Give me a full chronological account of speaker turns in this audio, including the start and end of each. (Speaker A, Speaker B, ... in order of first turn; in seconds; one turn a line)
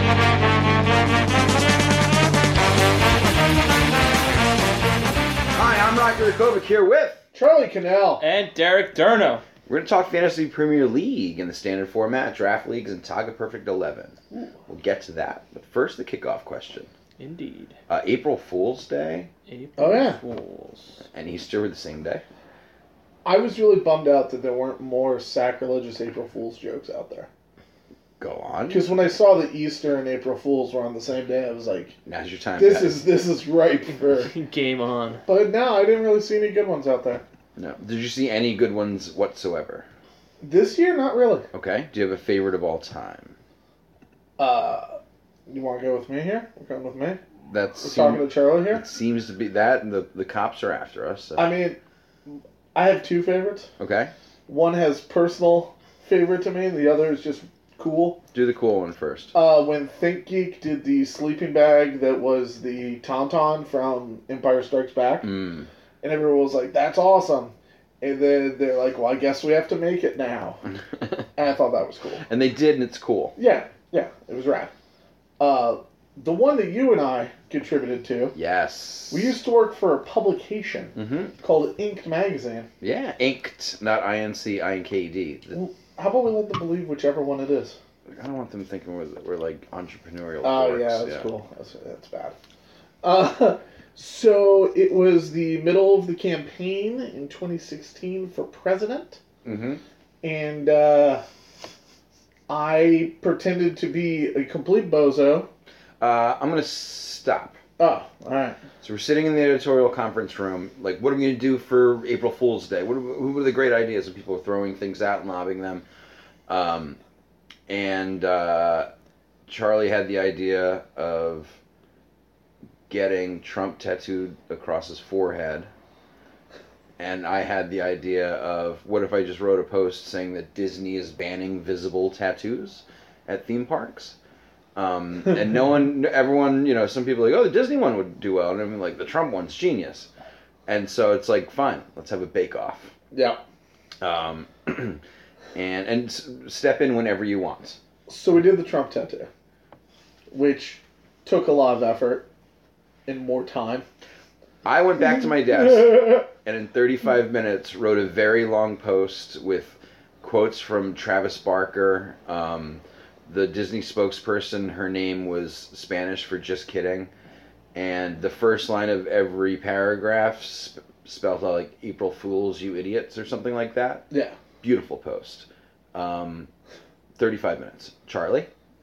Speaker A: 5.5-7.2
Speaker B: 7.3-8.2
Speaker C: 8.2-9.4
Speaker A: 9.7-16.9
Speaker B: 14.3-14.6
Speaker C: 17.2-17.8
Speaker A: 17.9-19.3
Speaker C: 19.5-21.1
Speaker B: 19.8-20.2
Speaker A: 21.1-22.2
Speaker B: 23.2-27.3
Speaker A: 28.2-28.9
Speaker B: 28.7-32.0
Speaker A: 32.0-33.0
Speaker B: 32.6-34.3
Speaker C: 34.0-35.2
Speaker B: 35.3-37.2
Speaker A: 37.5-39.9
Speaker B: 40.4-41.5
Speaker A: 41.5-43.4
Speaker B: 44.4-47.2
Speaker A: 47.5-51.5
Speaker B: 47.8-48.8
Speaker B: 51.4-53.7
Speaker A: 53.8-54.1
Speaker B: 54.5-58.2
Speaker A: 58.3-59.3
Speaker B: 59.3-65.3
Speaker A: 65.2-65.7
Speaker B: 66.0-70.6
Speaker B: 71.3-72.2
Speaker A: 72.2-73.3
Speaker B: 73.3-74.7
Speaker B: 75.4-78.3
Speaker A: 78.3-79.4
Speaker B: 79.1-82.7
Speaker A: 80.9-81.3
Speaker A: 82.8-85.6
Speaker B: 85.5-87.8
Speaker A: 88.1-91.3
Speaker B: 90.4-92.4
Speaker B: 93.0-99.2
Speaker A: 99.4-99.8
Speaker B: 100.2-101.2
Speaker B: 102.5-105.5
Speaker A: 106.0-107.6
Speaker B: 107.8-108.6
Speaker A: 108.8-115.8
Speaker A: 116.5-117.0
Speaker A: 117.7-118.9
Speaker A: 119.5-121.6
Speaker A: 122.9-125.7
Speaker A: 127.0-134.2
Speaker A: 134.8-140.1
Speaker A: 140.7-142.9
Speaker B: 143.1-143.4
Speaker A: 144.0-145.0
Speaker A: 145.6-147.8
Speaker B: 148.1-149.3
Speaker B: 150.3-152.3
Speaker B: 153.1-153.9
Speaker A: 154.7-167.1
Speaker A: 167.7-174.1
Speaker B: 174.1-174.4
Speaker A: 174.6-176.5
Speaker A: 177.2-178.5